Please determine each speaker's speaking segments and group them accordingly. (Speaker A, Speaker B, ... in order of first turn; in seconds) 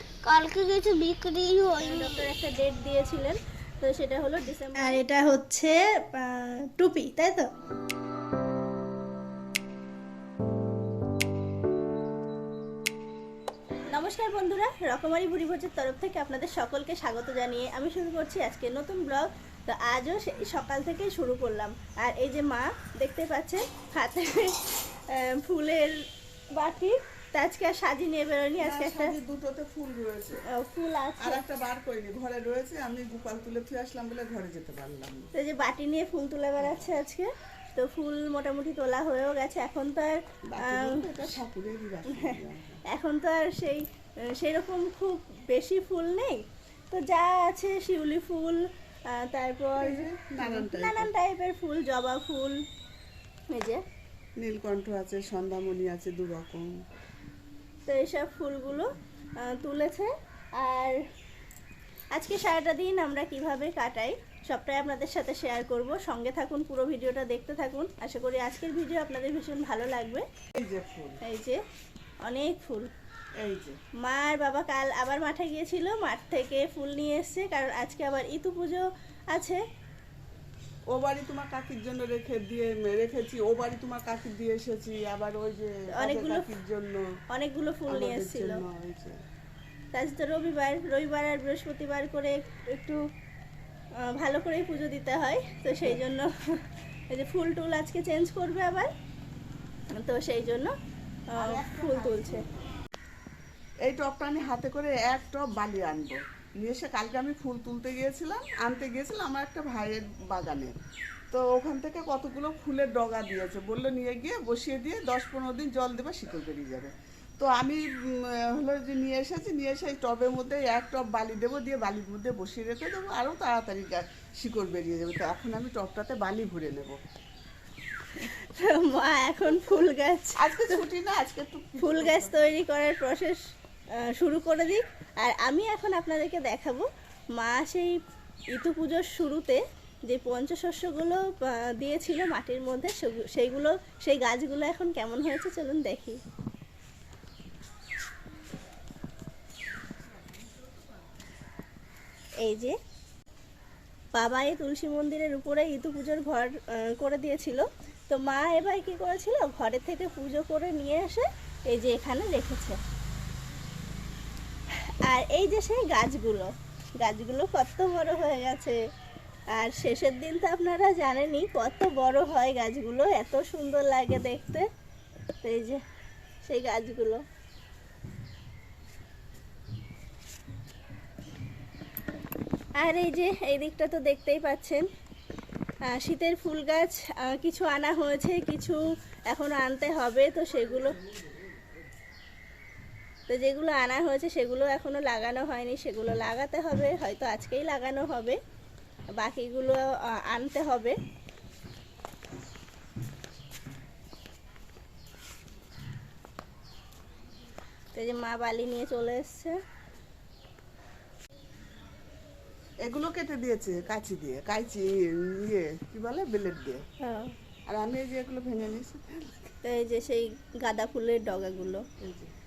Speaker A: 0.2-2.2
Speaker B: 1.8-7.5, 13.9-26.0, 26.5-29.1, 30.5-31.4, 35.3-41.4, 42.1-42.4, 42.9-52.6, 53.5-53.8, 57.9-58.9, 59.4-61.0, 62.1-70.2, 71.2-71.6, 72.2-72.9, 74.0-79.6, 85.9-86.5, 87.3-88.6, 89.9-93.0, 94.0-96.6, 97.1-98.9, 99.9-100.7, 101.3-102.4, 128.1-130.8, 131.8-133.4, 134.0-137.9, 138.5-146.2, 152.4-152.7, 154.1-162.8, 165.0-168.8, 169.5-174.6, 175.4-175.8, 176.4-177.2, 182.8-184.8, 185.9-190.9, 193.3-198.4, 199.2-201.0, 207.9-209.6, 217.0-217.3, 219.6-221.8
Speaker C: 28.6-30.4, 31.2-35.3, 36.6-37.0, 40.5-42.8, 49.8-51.1, 54.4-56.7, 70.6-71.2, 73.4-73.8, 80.9-87.0, 87.9-89.1, 101.3-102.5, 103.8-110.7, 111.3-127.0, 130.4-132.5, 212.8-216.8, 217.7-219.5, 222.0-222.3